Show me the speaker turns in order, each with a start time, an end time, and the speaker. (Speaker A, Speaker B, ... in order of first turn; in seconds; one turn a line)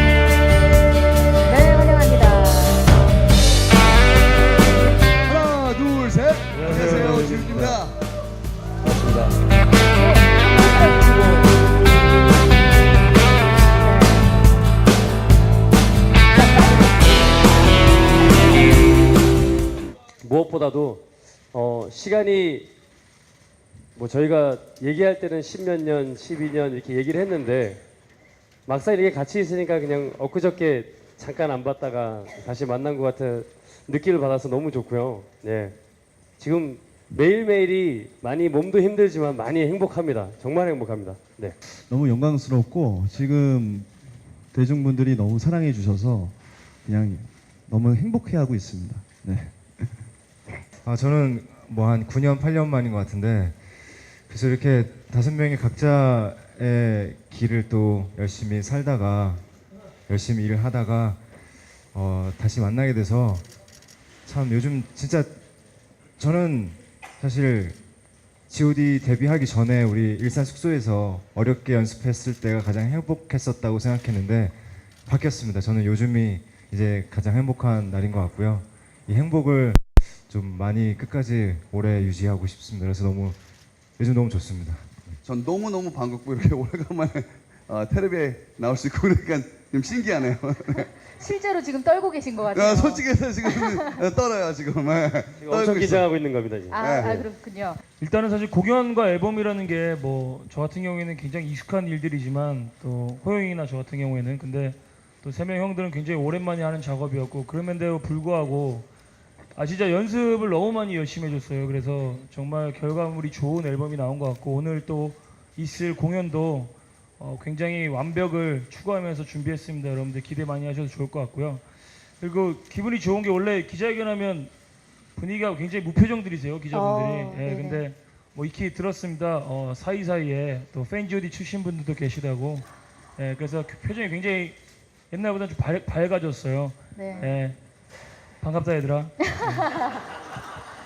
Speaker A: 1.4-2.9
Speaker B: 5.2-8.0
Speaker C: 6.5-7.8
Speaker C: 8.8-9.3
Speaker A: 9.9-11.5
Speaker A: 13.7-14.3
Speaker A: 16.3-17.2
Speaker C: 20.2-22.7
Speaker C: 23.9-27.8
Speaker C: 28.6-35.8
Speaker C: 36.4-41.5
Speaker D: 41.9-43.9
Speaker D: 44.5-46.3
Speaker D: 46.8-49.5
Speaker E: 50.8-53.5
Speaker E: 54.3-59.4
Speaker E: 60.1-61.2
Speaker E: 61.9-63.5
Speaker E: 64.2-65.4
Speaker E: 66.2-67.8
Speaker E: 68.5-83.4
Speaker E: 84.0-84.9
Speaker B: 85.2-90.9
Speaker A: 90.8-94.0
Speaker B: 92.5-96.1
Speaker C: 95.4-97.2
Speaker A: 96.7-97.8
Speaker B: 96.7-97.2
Speaker F: 98.0-108.9
Speaker F: 109.5-121.6
Speaker F: 122.2-124.5
Speaker F: 125.1-134.6
Speaker A: 126.7-127.8
Speaker F: 135.1-137.6
Speaker A: 136.9-137.2
Speaker F: 138.4-139.1